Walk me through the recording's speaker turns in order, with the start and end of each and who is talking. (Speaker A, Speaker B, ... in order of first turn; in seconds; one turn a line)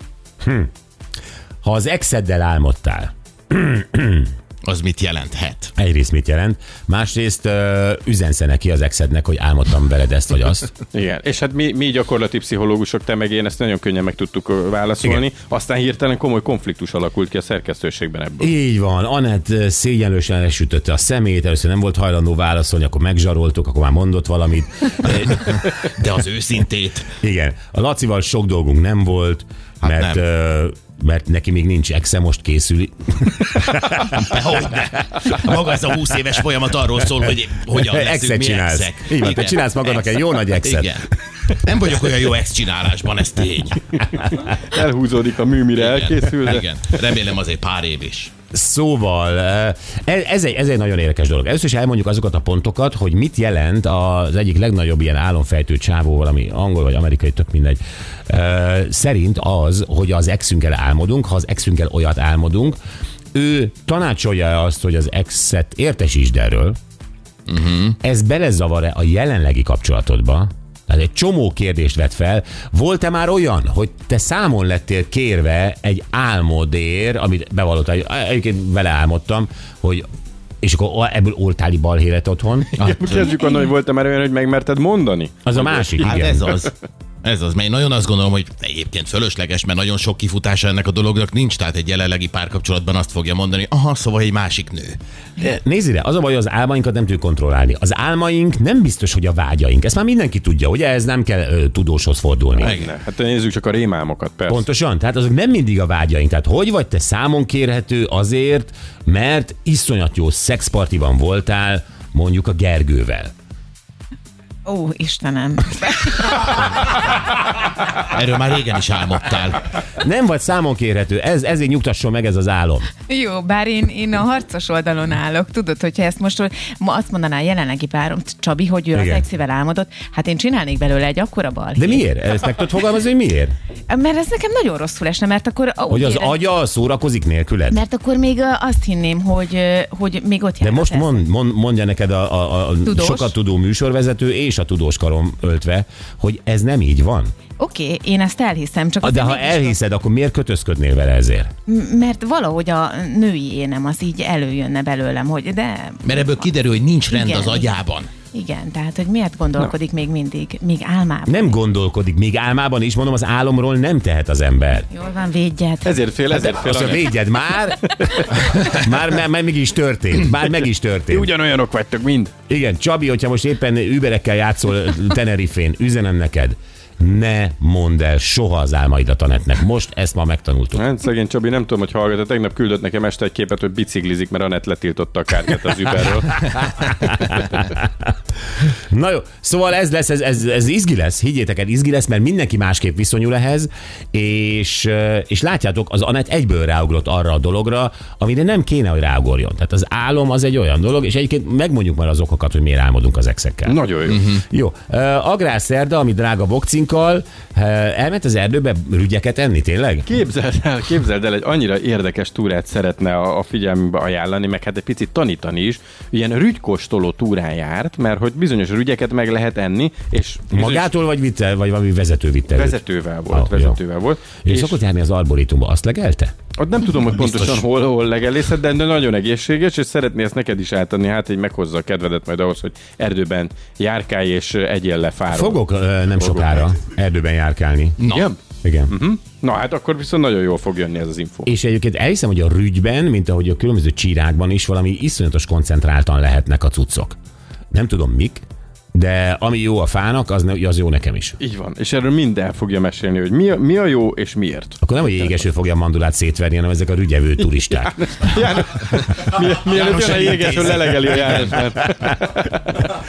Speaker A: 0.4-0.7
Speaker A: 1.6-4.3
Speaker B: 4.6-5.7
Speaker A: 5.8-10.7
Speaker C: 10.9-18.5
Speaker A: 18.4-25.4
Speaker B: 25.1-27.1
Speaker A: 27.2-34.1
Speaker B: 29.8-30.2
Speaker B: 34.0-44.0
Speaker A: 34.7-35.0
Speaker A: 37.7-41.0
Speaker C: 44.4-46.6
Speaker B: 45.8-48.3
Speaker A: 48.5-62.8
Speaker A: 63.3-66.8
Speaker B: 67.5-68.0
Speaker A: 68.0-80.1
Speaker A: 80.6-83.2
Speaker C: 82.7-85.9
Speaker A: 85.5-86.5
Speaker B: 86.0-95.0
Speaker A: 95.4-102.8
Speaker B: 102.6-102.9
Speaker C: 102.6-104.7
Speaker A: 104.5-113.3
Speaker D: 114.7-116.7
Speaker B: 118.0-119.7
Speaker A: 120.0-122.9
Speaker D: 123.1-132.0
Speaker A: 128.9-129.2
Speaker A: 131.8-133.5
Speaker D: 133.9-136.4
Speaker A: 135.9-137.8
Speaker D: 137.7-141.2
Speaker A: 140.6-147.3
Speaker D: 142.9-143.3
Speaker D: 147.6-149.8
Speaker A: 149.0-151.5
Speaker D: 151.7-156.5
Speaker B: 156.0-158.1
Speaker D: 157.1-157.7
Speaker D: 158.3-161.6
Speaker A: 161.3-164.9
Speaker D: 164.9-166.0
Speaker C: 165.8-167.2
Speaker A: 166.3-171.3
Speaker C: 168.1-168.4
Speaker C: 171.1-172.3
Speaker A: 172.5-180.8
Speaker C: 180.8-186.7
Speaker A: 186.8-188.1
Speaker A: 188.9-210.1
Speaker C: 203.7-204.4
Speaker C: 210.1-220.9
Speaker A: 220.5-223.8
Speaker C: 222.5-224.8
Speaker A: 224.4-226.3
Speaker C: 226.6-236.6
Speaker A: 235.3-238.0
Speaker B: 238.0-238.3
Speaker C: 238.1-238.4
Speaker A: 238.6-238.9
Speaker C: 238.9-241.5
Speaker A: 241.5-247.2
Speaker A: 247.7-251.4
Speaker C: 251.4-254.8
Speaker A: 254.8-257.9
Speaker C: 257.9-262.9
Speaker B: 259.7-261.6